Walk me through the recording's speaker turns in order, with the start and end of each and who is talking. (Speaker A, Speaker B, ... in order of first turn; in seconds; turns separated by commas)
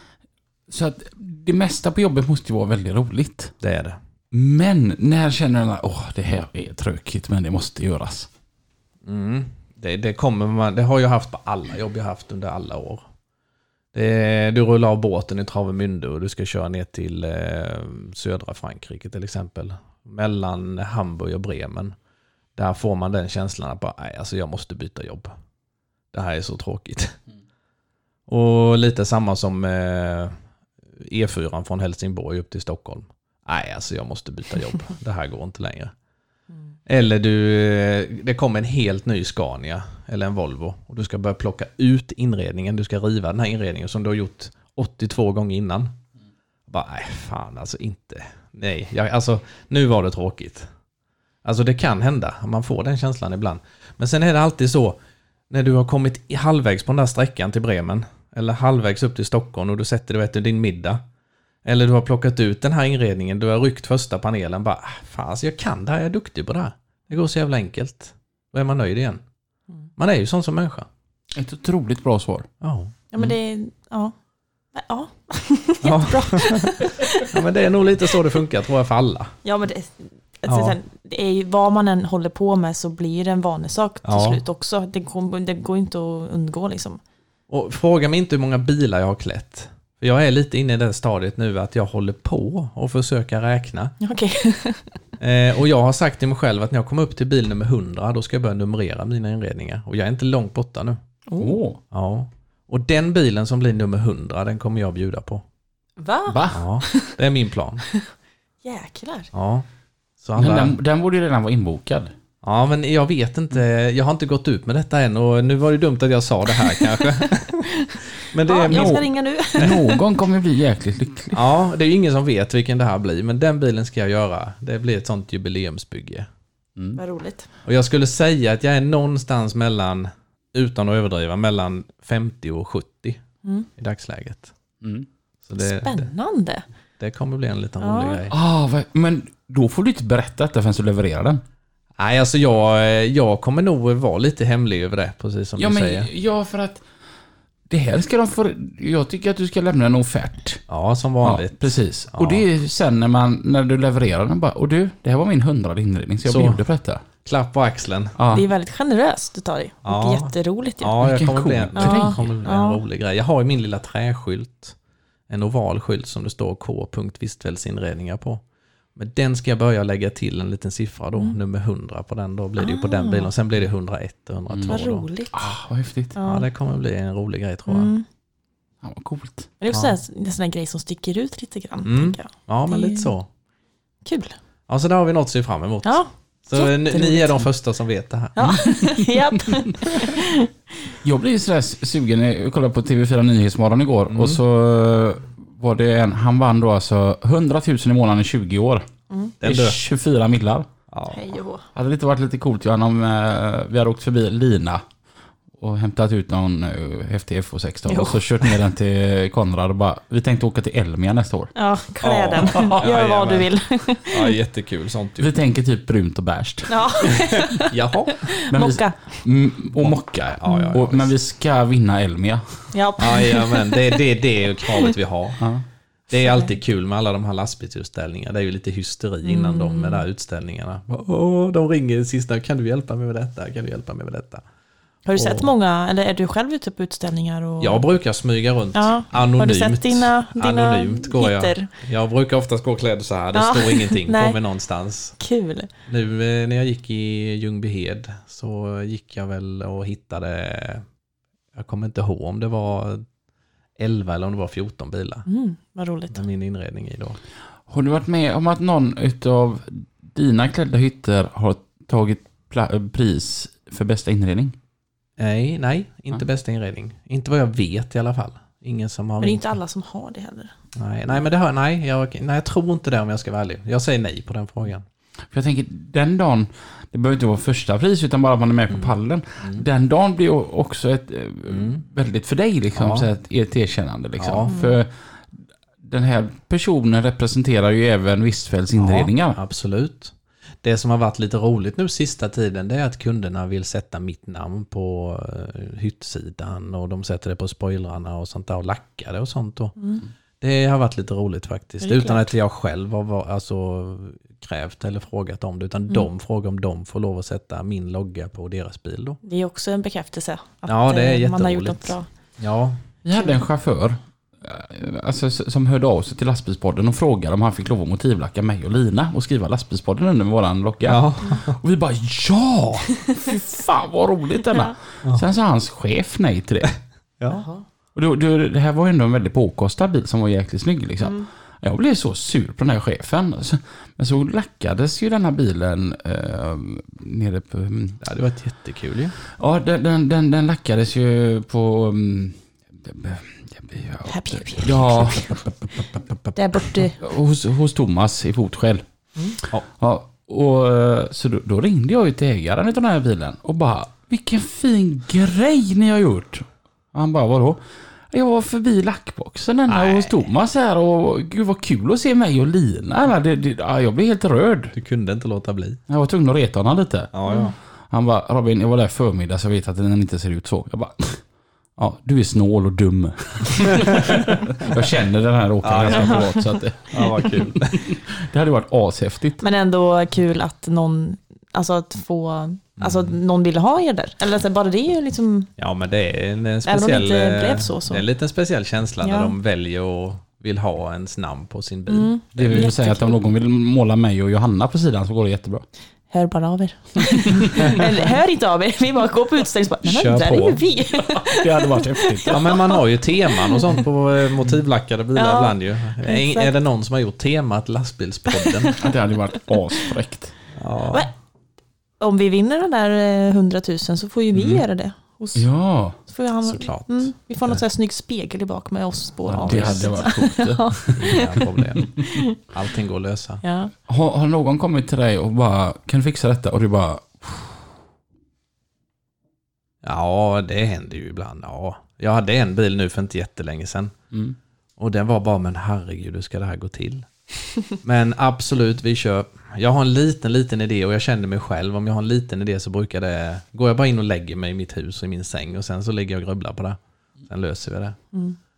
Speaker A: 0.7-3.5, Speaker B: 3.6-4.0, Speaker A: 4.3-8.3, Speaker B: 9.0-13.0, Speaker B: 13.9-21.9, Speaker B: 22.6-25.3, Speaker B: 26.1-27.2, Speaker B: 28.3-30.3, Speaker B: 31.0-35.9, Speaker B: 36.9-45.9, Speaker B: 46.7-50.7, Speaker B: 51.4-55.0, Speaker B: 55.5-61.0, Speaker B: 61.6-69.2, Speaker B: 70.0-70.9, Speaker A: 71.3-72.5, Speaker B: 72.6-72.9, Speaker C: 73.1-74.1, Speaker C: 74.7-77.3, Speaker B: 75.8-79.3, Speaker C: 79.4-87.0, Speaker B: 80.5-80.8, Speaker B: 84.0-84.4, Speaker B: 87.5-93.9, Speaker C: 94.0-94.9, Speaker B: 95.2-101.0, Speaker C: 101.3-101.5, Speaker A: 101.4-101.8, Speaker B: 101.9-105.4, Speaker C: 106.0-107.1, Speaker A: 106.3-106.6, Speaker B: 106.5-107.8, Speaker C: 108.6-109.3, Speaker B: 109.3-109.7, Speaker B: 110.2-110.8, Speaker A: 110.4-112.1, Speaker B: 112.4-117.7, Speaker C: 117.6-120.0, Speaker B: 118.2-119.0, Speaker A: 118.7-121.4, Speaker B: 121.3-126.3, Speaker C: 127.0-127.5, Speaker B: 127.6-133.2, Speaker B: 133.8-134.5, Speaker A: 134.8-135.1, Speaker B: 135.4-136.1, Speaker C: 135.6-136.6, Speaker B: 137.0-138.3, Speaker C: 137.8-138.2, Speaker A: 138.3-141.4, Speaker B: 142.0-146.1, Speaker A: 145.6-146.8, Speaker A: 147.7-150.6, Speaker B: 150.7-152.4, Speaker A: 151.2-157.0, Speaker B: 156.2-156.6, Speaker B: 157.2-158.2, Speaker A: 158.2-158.4, Speaker C: 158.3-161.0, Speaker B: 159.8-164.8, Speaker A: 161.0-162.3, Speaker C: 161.8-162.8, Speaker B: 165.3-168.4, Speaker B: 168.9-175.1, Speaker C: 172.6-173.3, Speaker A: 174.5-174.8, Speaker C: 174.7-175.4, Speaker A: 175.3-176.2, Speaker C: 176.2-176.4, Speaker B: 176.2-177.9, Speaker C: 177.7-178.0, Speaker A: 178.8-179.5, Speaker C: 179.6-183.1, Speaker B: 181.8-183.3, Speaker C: 184.0-184.3, Speaker B: 184.7-188.5, Speaker C: 185.8-187.4, Speaker C: 188.3-190.9, Speaker A: 188.4-189.6, Speaker A: 191.0-198.8, Speaker B: 194.1-194.4, Speaker B: 199.4-199.8, Speaker A: 199.4-200.7, Speaker B: 200.9-201.2, Speaker C: 201.1-201.7, Speaker A: 201.7-204.8, Speaker A: 205.6-211.5, Speaker C: 207.9-208.2, Speaker C: 211.5-214.3, Speaker B: 212.0-213.5, Speaker A: 212.4-212.8, Speaker B: 214.1-215.3, Speaker A: 215.2-217.2, Speaker C: 216.7-219.2, Speaker B: 217.6-218.3, Speaker A: 218.5-222.7, Speaker B: 219.8-221.1, Speaker C: 220.5-220.7, Speaker C: 222.7-224.0, Speaker B: 223.0-225.4, Speaker B: 226.1-234.4, Speaker C: 226.2-226.4, Speaker C: 229.2-230.0, Speaker C: 235.1-237.8, Speaker B: 235.1-235.5, Speaker B: 237.6-245.1, Speaker C: 238.7-241.7, Speaker C: 243.3-244.4, Speaker C: 245.2-245.7, Speaker B: 245.9-250.8, Speaker B: 251.5-253.0, Speaker B: 253.8-255.2, Speaker C: 255.2-256.2, Speaker B: 256.1-257.2, Speaker A: 257.7-264.6, Speaker B: 265.2-269.5, Speaker C: 269.2-270.5, Speaker B: 270.8-274.9, Speaker A: 275.3-284.9, Speaker B: 278.7-279.6, Speaker B: 281.5-281.8, Speaker B: 282.8-283.1, Speaker B: 284.2-284.5, Speaker C: 284.5-284.8, Speaker A: 285.8-289.4, Speaker B: 288.7-299.8, Speaker B: 300.4-309.2, Speaker C: 301.8-302.3, Speaker C: 309.2-312.1, Speaker B: 310.7-312.8, Speaker A: 313.0-326.7, Speaker B: 320.8-321.6, Speaker B: 327.2-327.4, Speaker C: 327.3-327.6, Speaker A: 327.9-338.0, Speaker C: 331.0-331.3, Speaker B: 338.0-339.1, Speaker A: 339.3-345.4, Speaker C: 344.1-345.4, Speaker C: 346.3-347.0, Speaker A: 347.0-348.8, Speaker A: 349.8-364.7, Speaker B: 359.7-360.2, Speaker B: 364.7-365.8, Speaker A: 365.9-367.1, Speaker B: 367.1-367.5, Speaker A: 367.9-371.2, Speaker A: 371.8-379.4, Speaker B: 374.6-374.9, Speaker B: 375.6-377.9, Speaker C: 375.9-376.6, Speaker C: 379.4-385.5, Speaker B: 382.8-383.1, Speaker B: 385.6-392.7, Speaker C: 386.6-388.0, Speaker C: 389.0-389.3, Speaker C: 391.9-393.2, Speaker A: 392.4-395.6, Speaker C: 396.1-403.8, Speaker B: 399.8-400.6, Speaker A: 401.0-402.6, Speaker B: 402.3-408.8, Speaker C: 405.1-406.5, Speaker C: 408.3-408.9, Speaker A: 408.8-410.3, Speaker B: 410.5-411.1, Speaker C: 412.0-415.4, Speaker B: 414.4-414.6, Speaker A: 415.3-416.0, Speaker C: 416.1-422.4, Speaker B: 416.4-417.6, Speaker A: 419.3-421.3, Speaker B: 419.4-420.0, Speaker B: 420.9-421.9, Speaker B: 422.4-423.4, Speaker C: 423.4-423.7, Speaker A: 423.9-427.6, Speaker B: 429.8-433.9, Speaker B: 434.8-437.1, Speaker B: 437.7-448.0